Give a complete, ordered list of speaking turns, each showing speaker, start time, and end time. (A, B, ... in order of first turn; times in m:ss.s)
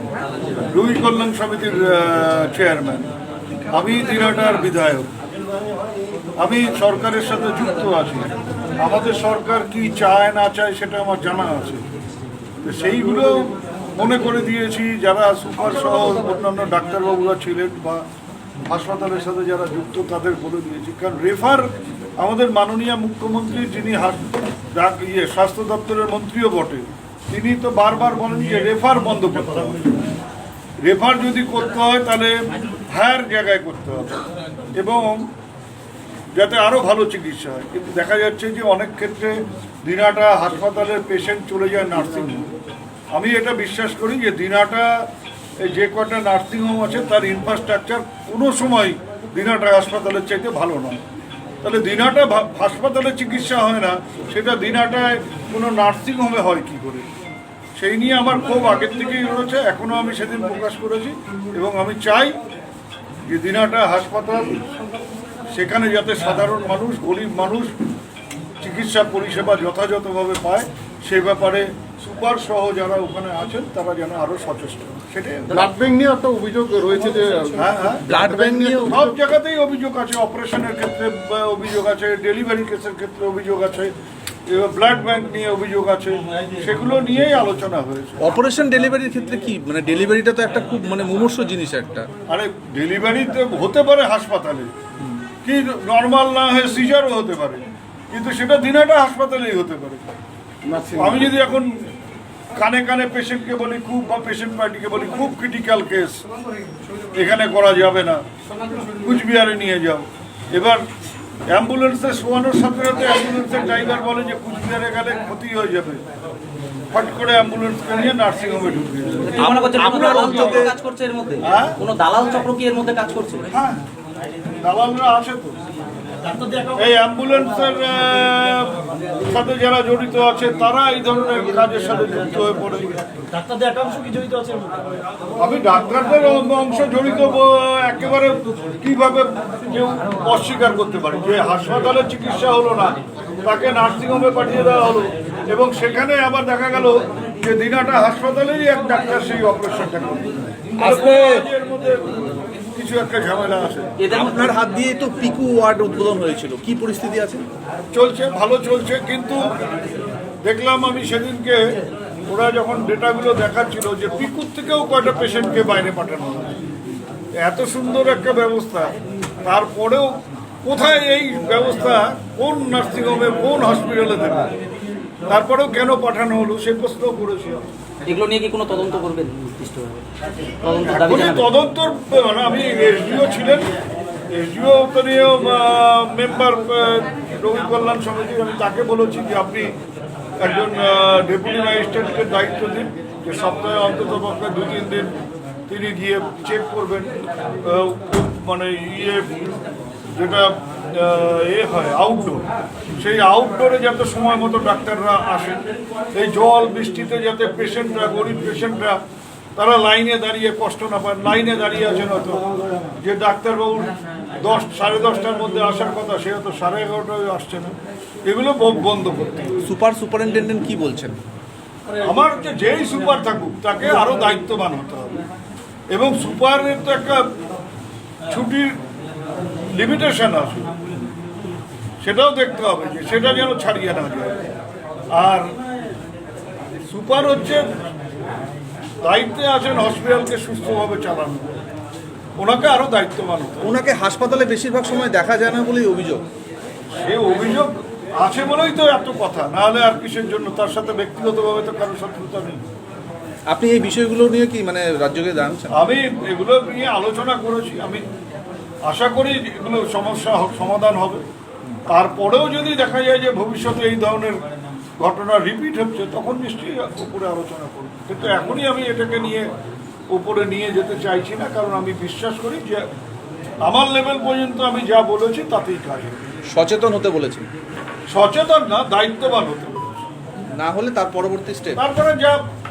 0:00.7-0:03.1 A
0:03.7-0:05.1 A
0:06.4-0:11.8 A
0:12.6-0:18.0 A
0:18.7-0:29.8 A
0:30.8-0:34.2 A
0:34.8-0:35.3 A
0:36.3-0:42.5 A
0:43.1-0:45.0 A
0:45.6-0:51.0 A
0:51.6-0:57.0 A
0:57.8-1:02.4 A
1:03.3-1:04.6 A
1:05.5-1:07.7 A
1:08.6-1:15.7 A
1:15.5-1:19.1 B
1:17.6-1:18.0 A
1:18.0-1:19.0 C
1:18.8-1:23.9 A
1:24.5-1:28.3 A
1:28.2-1:32.1 C
1:32.3-1:34.7 A
1:35.4-1:40.1 A
1:40.6-1:41.2 B
1:40.9-1:41.8 A
1:42.6-1:46.2 A
1:47.1-1:48.2 A
1:49.0-1:50.8 A
1:51.5-1:56.0 A
1:56.9-2:00.7 A
1:59.2-2:03.5 D
1:59.4-2:00.7 C
2:01.4-2:01.8 A
2:03.5-2:03.8 A
2:04.6-2:05.6 A
2:06.7-2:13.0 A
2:13.4-2:14.8 D
2:15.4-2:33.9 A
2:30.8-2:31.4 C
2:34.0-2:34.6 D
2:34.1-2:37.4 C
2:37.9-2:39.5 A
2:40.4-2:41.6 A
2:42.3-2:46.5 A
2:47.4-2:48.9 A
2:49.4-2:54.5 A
2:55.3-2:57.6 A
2:58.0-3:00.0 D
3:00.6-3:01.5 D
3:00.9-3:03.7 A
3:04.3-3:09.8 A
3:10.4-3:15.1 A
3:15.7-3:19.4 A
3:20.2-3:22.4 A
3:23.0-3:29.0 A
3:29.6-3:32.4 A
3:33.0-3:39.6 A
3:39.6-3:41.2 C
3:42.0-3:45.2 A
3:45.9-3:47.2 A
3:48.3-3:48.8 A
3:49.7-3:50.7 A
3:52.0-3:54.4 A
3:55.2-3:55.5 A
3:56.9-3:57.7 A
3:59.0-4:01.5 A
4:02.4-4:03.7 A
4:03.6-4:06.2 C
4:07.0-4:12.6 A
4:13.5-4:15.8 C
4:15.7-4:18.0 A
4:18.9-4:21.2 A
4:21.9-4:24.4 A
4:25.0-4:29.5 A
4:30.1-4:32.8 A
4:33.6-4:36.2 A
4:36.5-4:37.5 C
4:38.1-4:40.1 A
4:40.6-4:41.8 C
4:41.8-4:42.4 A